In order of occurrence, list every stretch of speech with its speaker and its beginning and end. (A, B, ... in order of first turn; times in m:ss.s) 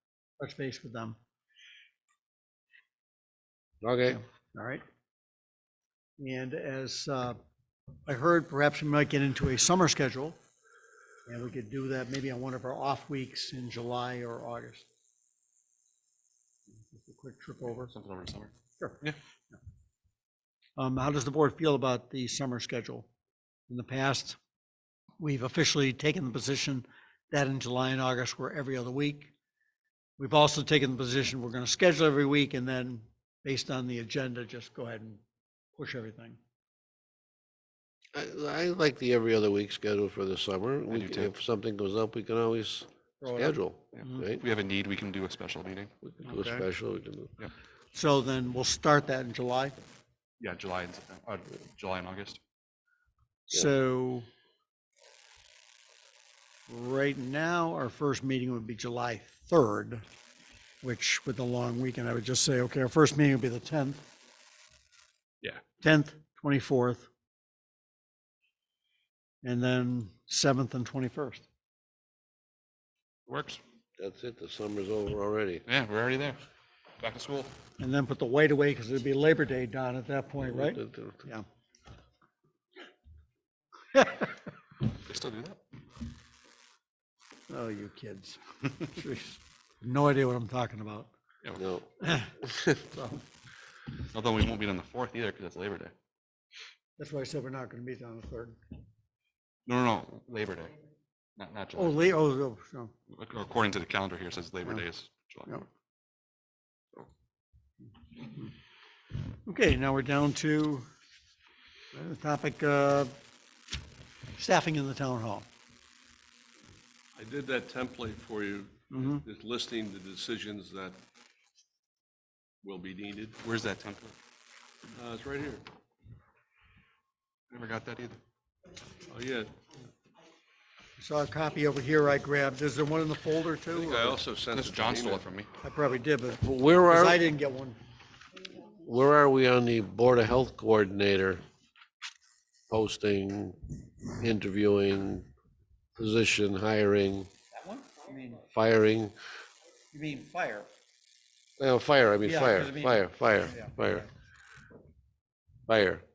0:00.4-0:01.2 A
0:03.8-0:04.2 B
0:04.1-0:04.8 A
0:06.2-0:07.4 A
0:08.1-0:10.4 A
0:11.3-0:14.9 A
0:16.9-0:17.9 A
0:17.6-0:19.2 C
0:20.8-0:23.1 A
0:23.7-0:24.4 A
0:25.2-0:29.3 A
0:30.2-0:35.2 A
0:35.8-0:36.4 A
0:38.1-0:44.4 B
0:40.9-0:41.3 C
0:43.2-0:44.3 A
0:44.0-0:45.9 C
0:46.0-0:47.3 B
0:46.2-0:46.7 A
0:47.9-0:49.8 A
0:50.4-0:52.4 C
0:53.5-0:54.3 A
0:56.7-1:00.0 A
1:00.8-1:04.0 A
1:05.8-1:07.1 A
1:09.4-1:11.5 A
1:13.3-1:13.6 C
1:14.0-1:15.6 B
1:15.7-1:16.4 C
1:17.0-1:17.5 C
1:17.8-1:21.4 A
1:20.4-1:21.2 B
1:24.0-1:24.3 A
1:24.9-1:25.6 C
1:27.5-1:31.1 A
1:31.6-1:32.6 B
1:32.0-1:33.2 A
1:34.0-1:35.9 C
1:37.0-1:38.6 A
1:39.7-1:40.8 C
1:41.4-1:42.0 C
1:41.8-1:42.9 A
1:43.1-1:45.6 C
1:48.2-1:48.5 A
1:49.3-1:50.9 A
1:51.9-1:53.1 A
1:54.4-1:55.5 A
1:57.2-2:01.0 D
1:58.9-1:59.2 A
2:02.6-2:03.4 D
2:03.4-2:04.1 C
2:04.9-2:05.6 D
2:07.5-2:08.2 C
2:09.0-2:09.5 D
2:11.0-2:14.2 A
2:13.7-2:15.2 D
2:14.5-2:15.5 C
2:15.6-2:17.8 A
2:16.4-2:17.2 B
2:18.6-2:21.4 B
2:22.7-2:25.3 B
2:26.0-2:27.3 B
2:27.5-2:28.5 A
2:28.5-2:29.1 B
2:29.9-2:30.7 A
2:31.6-2:34.1 B
2:32.2-2:34.1 A
2:35.7-2:36.0 B